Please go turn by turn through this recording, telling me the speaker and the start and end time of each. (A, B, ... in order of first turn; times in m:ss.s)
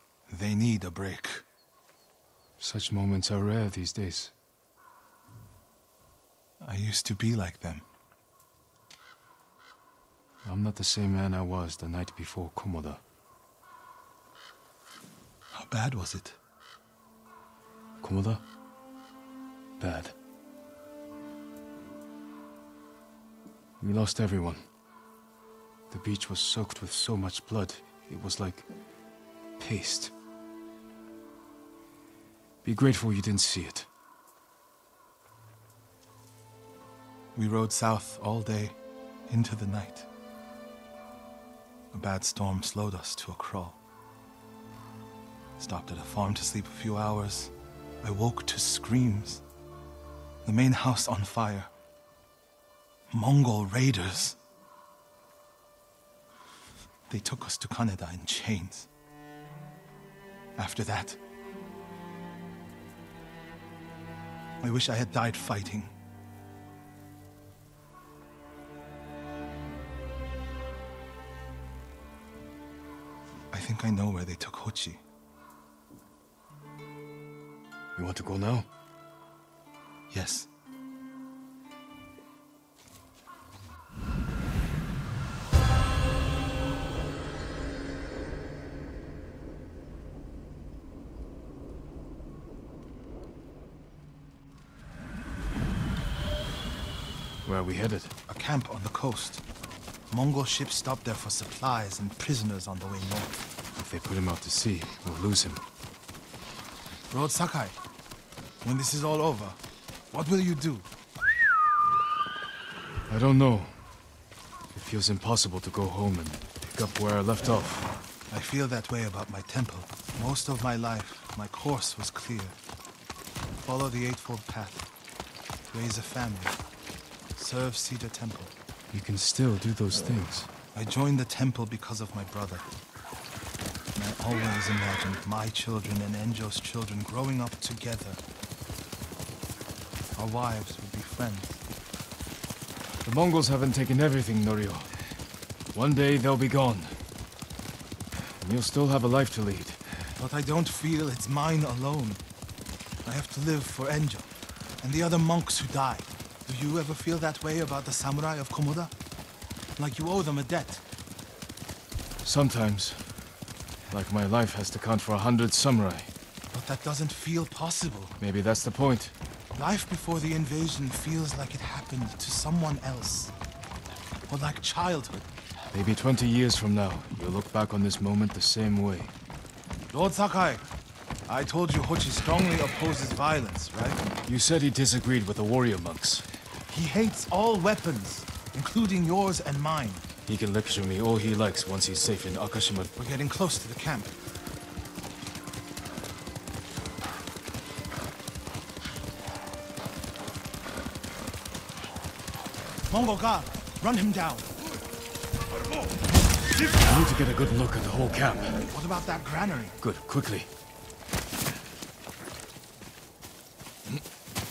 0:00.3-0:01.5 A
0:02.6-0:04.3 B
0:06.6-0:07.9 A
0:10.4-0:13.0 B
0:15.5-0:16.4 A
0:18.0-0:18.4 B
0:19.8-0:20.2 B
0:23.8-0:24.7 B
0:25.9-0:28.7 B
0:29.6-0:30.1 B
0:32.6-0:33.9 B
0:37.4-0:38.8 A
0:39.3-0:40.1 A
0:41.9-0:43.8 A
0:45.6-0:49.4 A
0:50.4-0:51.7 A
0:53.1-0:54.4 A
0:57.1-0:58.9 A
1:00.6-1:01.2 A
1:04.6-1:05.9 A
1:13.5-1:15.0 A
1:18.0-1:18.7 B
1:20.1-1:20.5 A
1:37.4-1:38.1 B
1:38.3-1:39.4 A
1:40.1-1:43.4 A
1:43.8-1:45.6 B
1:47.1-1:47.8 A
1:48.6-1:49.6 A
1:50.1-1:50.9 A
1:53.1-1:53.8 B
1:54.7-1:57.9 B
1:58.3-2:02.6 A
2:03.6-2:04.9 A
2:05.7-2:06.6 A
2:07.4-2:08.6 A
2:08.9-2:10.5 B
2:10.7-2:12.7 A
2:13.9-2:18.2 A
2:20.2-2:21.6 A
2:23.0-2:24.9 B
2:25.7-2:27.0 B
2:28.4-2:29.8 B
2:30.2-2:32.2 A
2:33.0-2:38.9 A
2:39.8-2:40.8 A
2:42.2-2:43.1 B
2:43.9-2:46.1 B
2:46.5-2:48.2 A
2:48.2-2:49.1 B
2:49.6-2:53.3 A
2:54.3-2:55.3 A
2:55.7-2:59.1 B
2:59.9-3:00.6 A
3:01.3-3:04.0 A
3:04.3-3:06.3 B
3:06.7-3:10.1 A
3:10.3-3:12.9 B
3:13.0-3:14.2 A
3:22.9-3:24.6 A
3:26.6-3:28.6 B
3:28.7-3:29.8 A
3:29.8-3:30.5 B